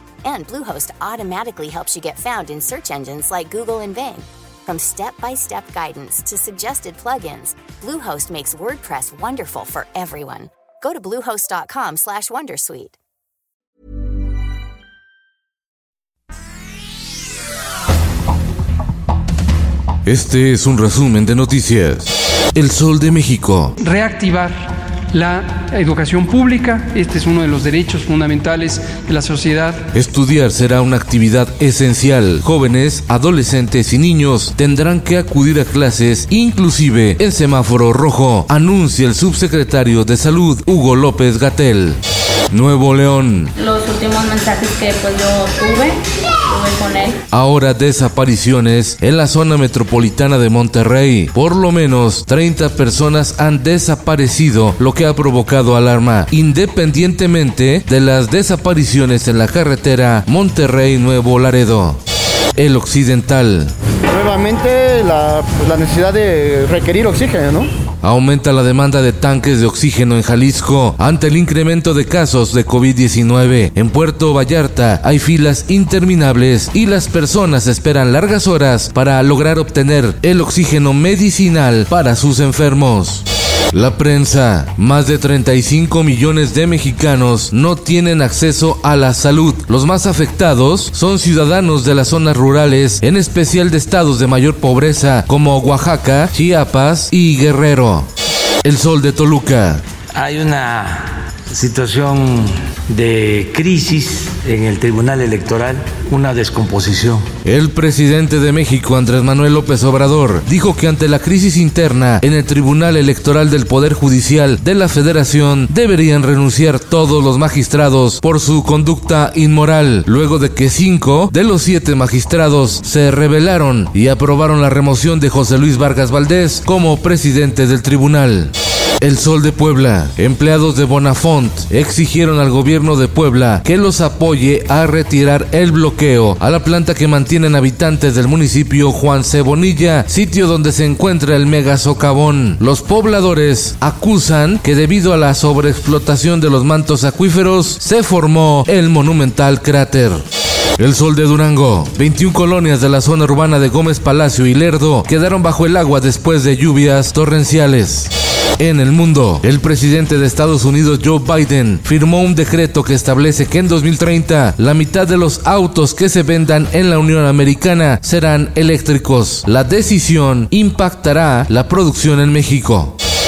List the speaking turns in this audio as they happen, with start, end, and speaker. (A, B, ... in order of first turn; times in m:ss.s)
0:00.2-0:13.0 A
0:20.0-0:23.7 B
0:23.8-0:29.8 C
0:29.9-0:42.0 B
0:42.5-0:43.5 B
0:43.6-0:47.2 D
0:47.3-1:02.0 B
1:02.6-1:03.7 B
1:04.1-1:07.7 E
1:08.0-1:38.1 B
1:38.6-1:39.8 B
1:40.1-1:47.3 F
1:47.4-2:30.2 B
2:30.8-2:52.9 B